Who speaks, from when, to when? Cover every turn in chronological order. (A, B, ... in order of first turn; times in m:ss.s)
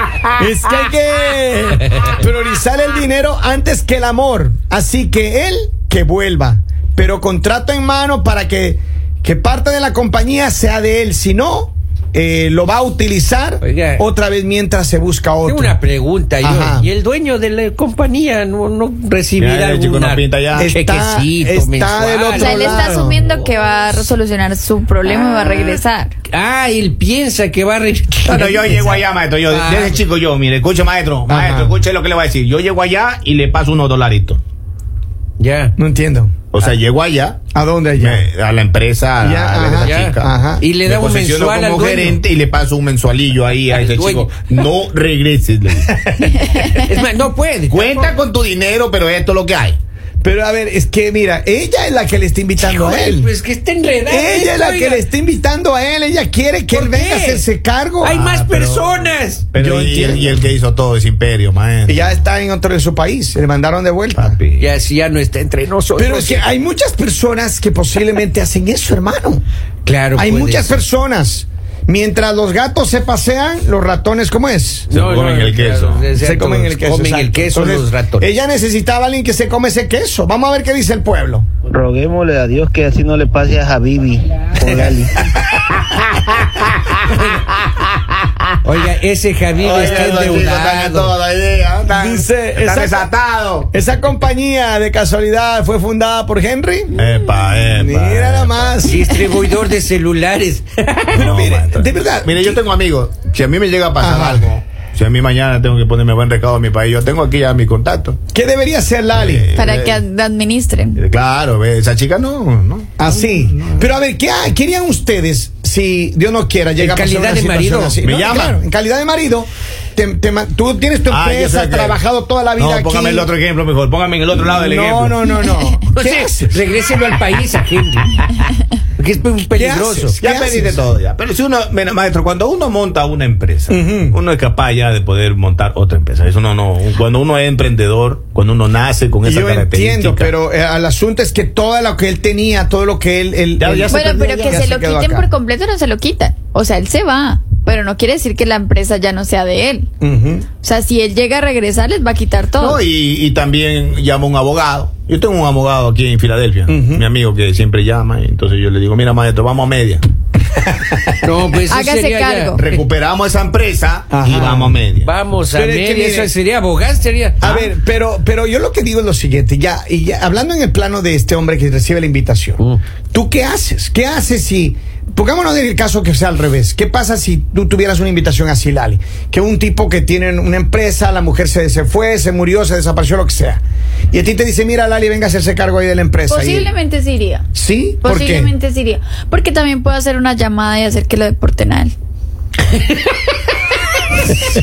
0:00.3-0:15.8 A
0:13.6-0:14.0 B
0:15.4-0:24.0 B
0:16.4-0:16.9 A
0:19.4-0:20.7 C
0:20.5-0:23.2 A
0:22.4-0:26.1 D
0:25.4-0:25.8 B
0:26.3-0:30.0 B
0:28.3-0:34.4 C
0:31.3-0:31.8 A
0:35.4-0:35.7 B
0:35.8-0:36.3 A
0:36.5-0:37.4 C
0:37.5-0:38.3 A
0:38.0-0:40.3 C
0:39.2-0:40.6 A
0:39.8-0:42.2 B
0:40.8-0:45.9 C
0:43.7-0:44.6 B
0:45.8-0:46.8 A
0:46.4-0:46.6 D
0:46.6-0:48.2 B
0:47.7-0:49.8 C
0:50.2-0:53.3 A
0:52.6-0:55.0 B
0:54.1-0:58.2 A
0:56.7-0:57.4 B
0:58.0-0:59.5 B
0:58.1-1:02.2 C
0:59.6-1:00.4 A
1:01.9-1:04.4 A
1:04.2-1:04.7 C
1:04.6-1:06.4 B
1:06.0-1:09.4 A
1:09.8-1:10.8 B
1:10.1-1:14.9 A
1:14.9-1:18.3 B
1:14.9-1:16.1 C
1:16.2-1:21.5 A
1:21.7-1:25.1 E
1:24.5-1:24.9 B
1:25.4-1:28.3 C
1:28.6-1:31.2 B
1:29.6-1:33.7 C
1:31.9-1:33.1 A
1:33.7-1:37.0 A
1:37.0-1:38.9 C
1:37.7-1:39.2 A
1:38.8-1:41.3 B
1:41.1-1:48.2 C
1:41.1-1:42.6 A
1:44.0-1:44.5 A
1:48.3-1:49.5 A
1:49.1-1:50.0 C
1:49.5-1:51.0 D
1:51.0-1:53.9 C
1:53.0-2:03.3 A
1:56.8-1:58.0 B
1:58.0-1:58.6 C
2:01.1-2:02.0 C
2:02.6-2:05.3 C
2:04.5-2:06.6 A
2:05.5-2:08.3 B
2:09.0-2:10.2 B
2:09.5-2:10.8 A
2:10.2-2:20.3 C
2:13.7-2:14.2 A
2:19.2-2:25.3 A
2:23.6-2:24.6 C
2:23.9-2:29.9 D
2:30.0-2:30.4 A
2:30.6-2:32.8 D
2:32.6-2:40.0 C
2:36.7-2:37.0 A
2:40.7-2:41.0 A
2:41.2-2:42.6 B
2:41.7-2:42.6 D
2:42.6-2:45.1 C
2:44.1-2:44.8 A
2:45.0-2:47.6 B
2:45.5-2:46.3 A
2:47.4-2:52.6 A
2:53.1-3:06.7 A
3:06.3-3:07.4 D
3:07.5-3:08.5 A
3:08.0-3:11.9 D
3:12.7-3:13.2 B
3:14.1-3:14.4 B